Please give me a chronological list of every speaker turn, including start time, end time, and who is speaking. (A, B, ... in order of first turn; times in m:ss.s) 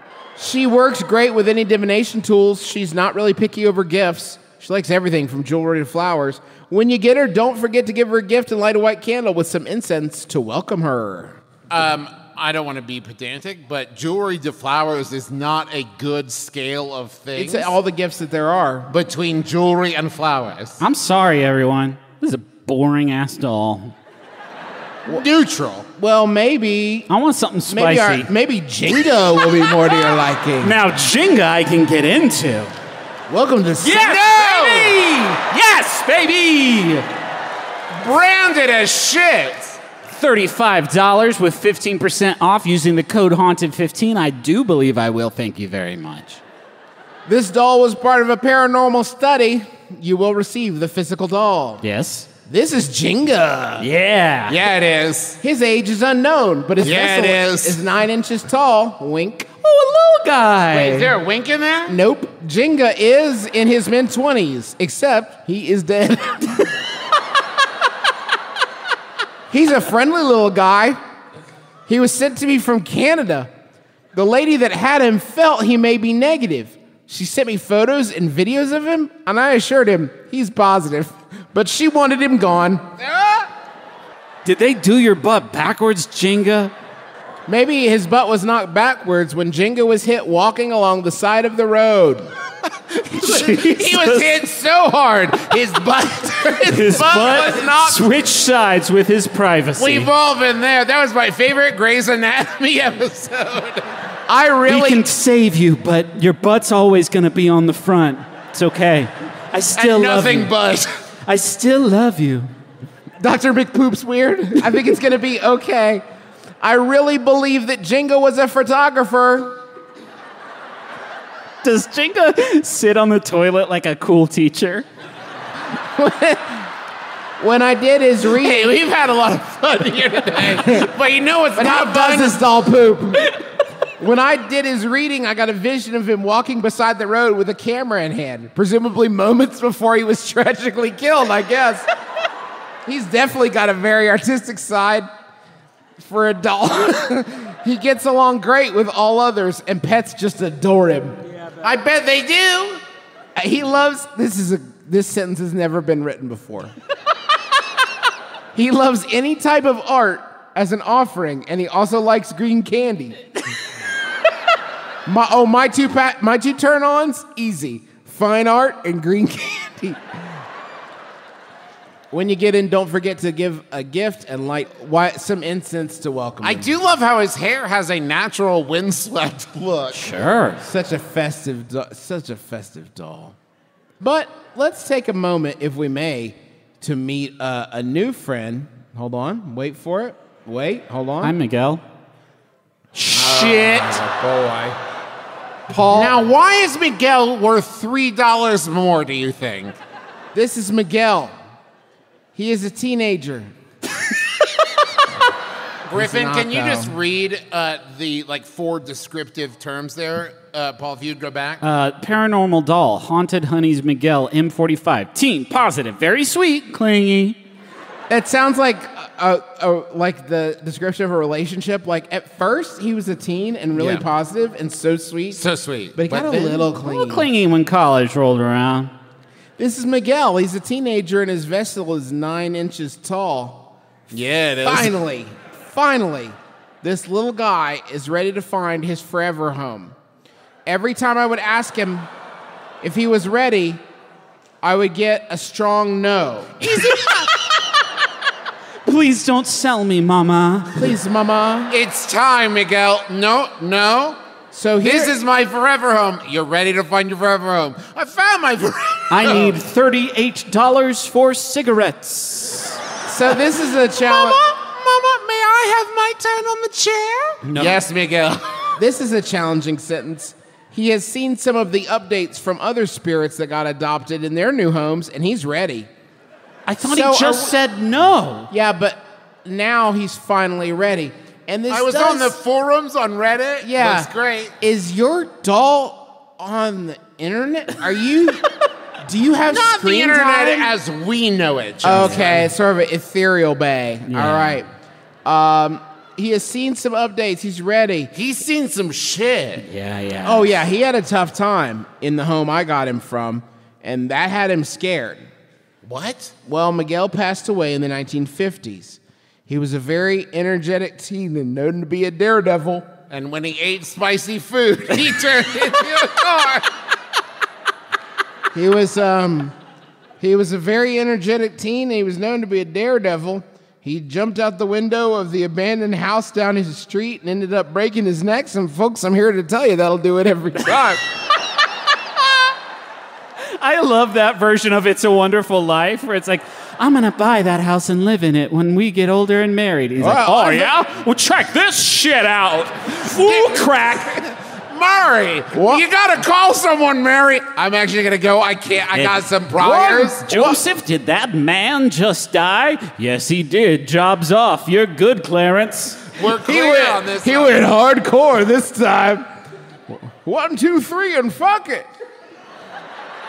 0:00.4-0:11.4 A
0:11.7-0:17.7 B
0:17.4-0:18.9 A
0:18.9-0:20.8 B
0:20.8-0:23.9 C
0:25.1-0:25.9 B
0:26.0-0:27.1 A
0:27.1-0:28.3 C
0:27.7-0:30.8 A
0:30.6-0:32.7 C
0:33.3-0:34.1 A
0:33.8-0:37.0 C
0:34.0-0:34.9 B
0:38.0-0:39.8 B
0:40.1-0:46.4 C
0:47.2-0:51.8 A
0:51.8-0:52.3 C
0:52.4-0:53.9 A
0:53.8-0:54.6 C
0:54.5-0:55.4 B
0:55.4-0:59.5 A
0:56.8-0:57.8 B
0:59.6-1:01.1 C
1:00.7-1:02.0 B
1:01.9-1:06.7 A
1:09.5-1:11.0 A
1:11.9-1:13.5 A
1:14.1-1:22.9 A
1:23.0-1:23.5 B
1:24.4-1:26.7 C
1:27.5-1:32.3 A
1:33.1-1:34.4 C
1:33.2-1:37.7 B
1:36.7-1:40.1 C
1:36.8-1:38.0 A
1:39.8-1:43.8 B
1:44.3-1:45.0 A
1:44.7-1:50.5 C
1:49.8-1:50.9 B
1:51.2-1:52.5 C
1:53.2-1:56.0 A
1:56.6-1:59.6 A
2:01.6-2:04.8 C
2:06.0-2:06.7 A
2:07.4-2:08.8 A
2:08.4-2:12.4 B
2:10.3-2:10.9 A
2:11.5-2:13.4 A
2:14.0-2:21.9 A
2:22.8-2:25.1 A
2:26.0-2:32.3 A
2:31.7-2:32.8 B
2:33.4-2:36.7 A
2:38.5-2:43.2 A
2:45.0-2:50.0 A
2:52.1-2:56.7 A
2:56.4-3:00.1 B
2:59.9-3:00.6 C
3:00.6-3:03.4 A
3:04.0-3:11.3 A
3:11.2-3:11.8 C
3:12.9-3:14.0 C
3:13.1-3:14.8 B
3:15.7-3:16.1 A
3:15.9-3:19.8 B
3:20.3-3:21.4 A
3:22.3-3:23.5 A
3:25.9-3:31.6 B
3:25.9-3:26.9 A
3:31.6-3:37.4 C
3:38.1-3:45.4 A
3:43.8-3:44.0 B
3:45.3-3:46.6 B
3:45.9-3:47.3 A
3:46.8-3:48.9 C
3:49.6-3:53.7 A
3:54.1-3:54.9 B
3:54.6-4:00.0 A
4:00.6-4:02.1 A
4:02.8-4:03.8 A
4:04.6-4:07.0 A
4:06.8-4:07.1 B
4:08.8-4:10.8 C
4:10.7-4:11.7 A
4:11.7-4:14.2 B
4:14.5-4:15.1 A
4:14.8-4:19.5 B
4:19.1-4:22.8 C
4:23.0-4:24.4 A
4:24.1-4:28.8 B
4:27.4-4:27.8 C
4:28.8-4:35.9 A
4:36.6-4:38.5 C
4:36.8-4:37.6 A
4:38.5-4:42.4 A
4:41.7-4:44.5 B
4:43.6-4:44.1 A
4:44.6-4:48.4 A
4:49.0-4:50.7 A
4:49.5-4:52.5 B
4:51.8-4:54.7 A
4:54.1-4:54.6 C
4:55.2-4:58.1 A
4:58.1-4:59.6 B
4:59.6-5:00.6 C
5:00.2-5:05.3 A
5:05.8-5:06.3 B
5:06.4-5:12.9 A
5:13.1-5:16.7 B
5:18.5-5:19.5 A
5:20.2-5:31.0 A
5:33.6-5:44.2 C
5:40.0-5:40.7 A
5:43.2-5:50.2 B
5:45.5-5:45.8 A
5:48.9-5:49.3 C
5:49.6-5:50.6 A
5:50.2-5:56.0 C
5:56.2-5:57.6 B
5:56.3-5:59.3 A
5:59.9-6:01.9 A